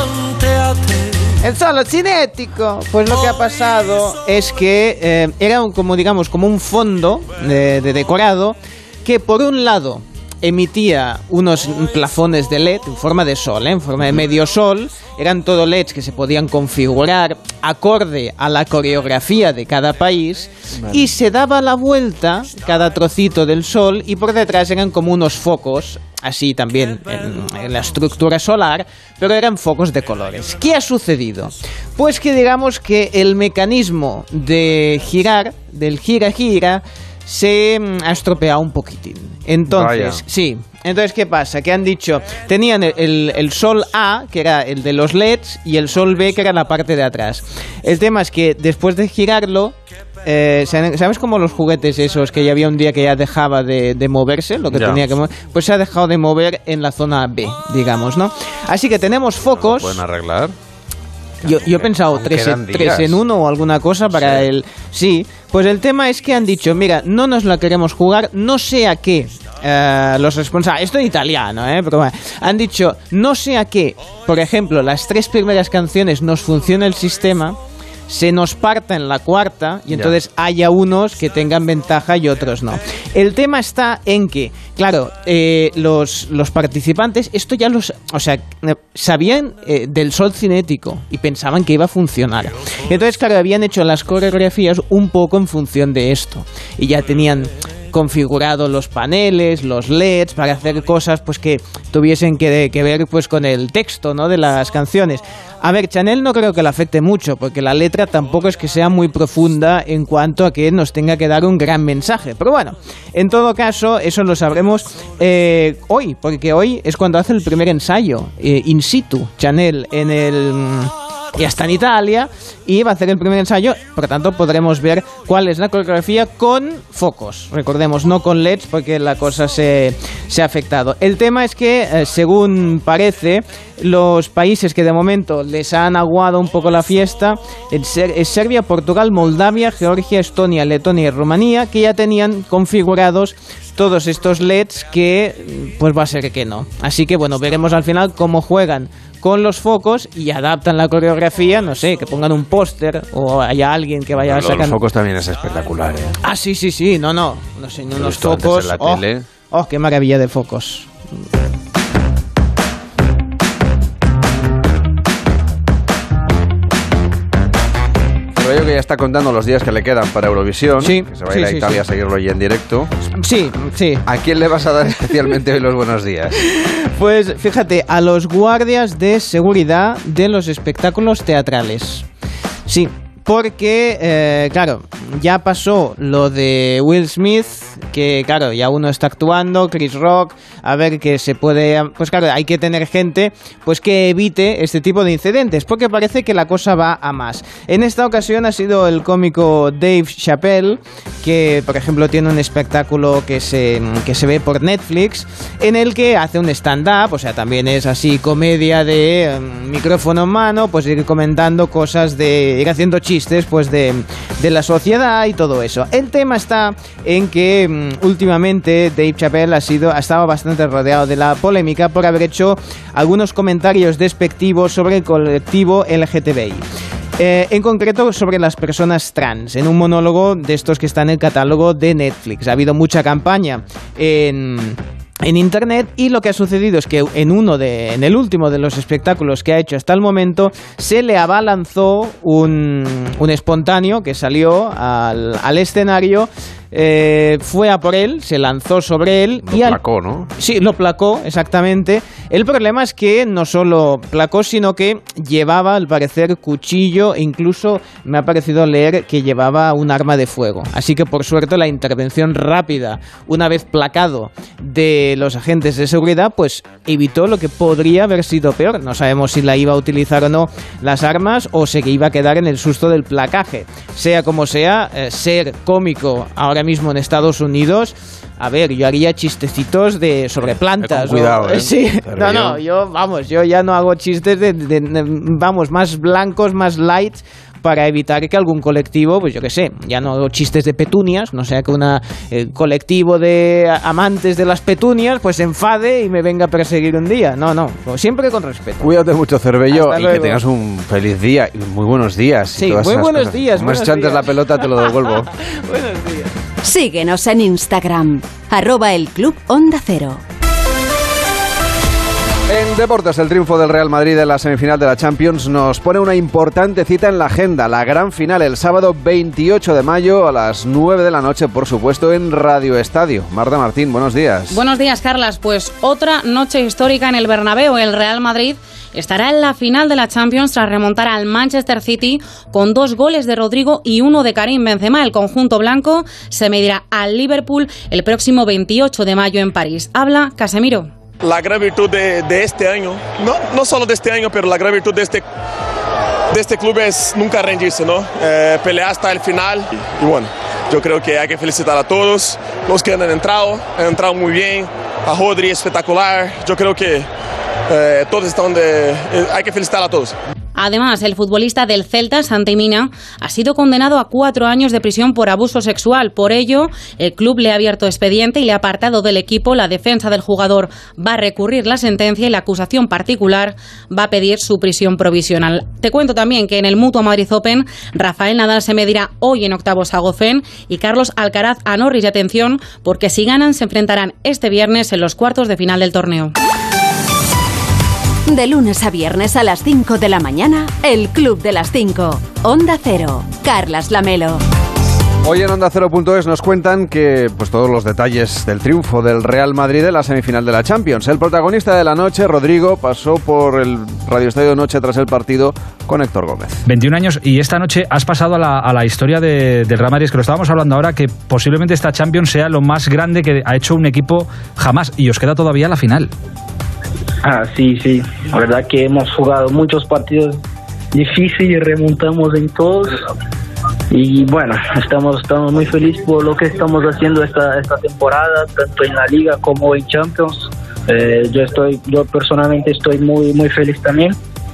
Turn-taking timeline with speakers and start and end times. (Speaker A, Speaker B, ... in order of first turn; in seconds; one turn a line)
Speaker A: 1.4-60.0
Speaker B: 39.7-40.2
Speaker B: 54.7-55.0
Speaker B: 59.5-60.5
Speaker A: 61.5-77.6
Speaker B: 61.5-63.2
Speaker A: 78.1-154.8
Speaker B: 154.2-156.2
Speaker A: 156.2-160.9
Speaker B: 157.9-159.2
Speaker B: 168.4-172.9
Speaker A: 170.8-171.8
Speaker A: 173.2-174.0
Speaker B: 174.1-176.4
Speaker A: 176.5-182.1
Speaker A: 182.7-226.6
Speaker A: 227.2-249.8
Speaker B: 249.5-250.3
Speaker A: 250.4-298.9
Speaker B: 280.8-282.6
Speaker B: 298.8-305.3
Speaker A: 299.7-300.4
Speaker A: 302.6-304.3
Speaker A: 305.5-306.3
Speaker C: 306.6-310.2
Speaker B: 312.5-324.6
Speaker D: 324.5-340.9
Speaker E: 341.2-345.2
Speaker E: 346.3-357.1
Speaker E: 357.7-360.1
Speaker D: 360.6-386.3
Speaker C: 388.3-394.4
Speaker B: 395.2-406.6
Speaker F: 406.6-416.1
Speaker G: 417.2-420.4
Speaker G: 420.9-423.0
Speaker G: 423.9-434.1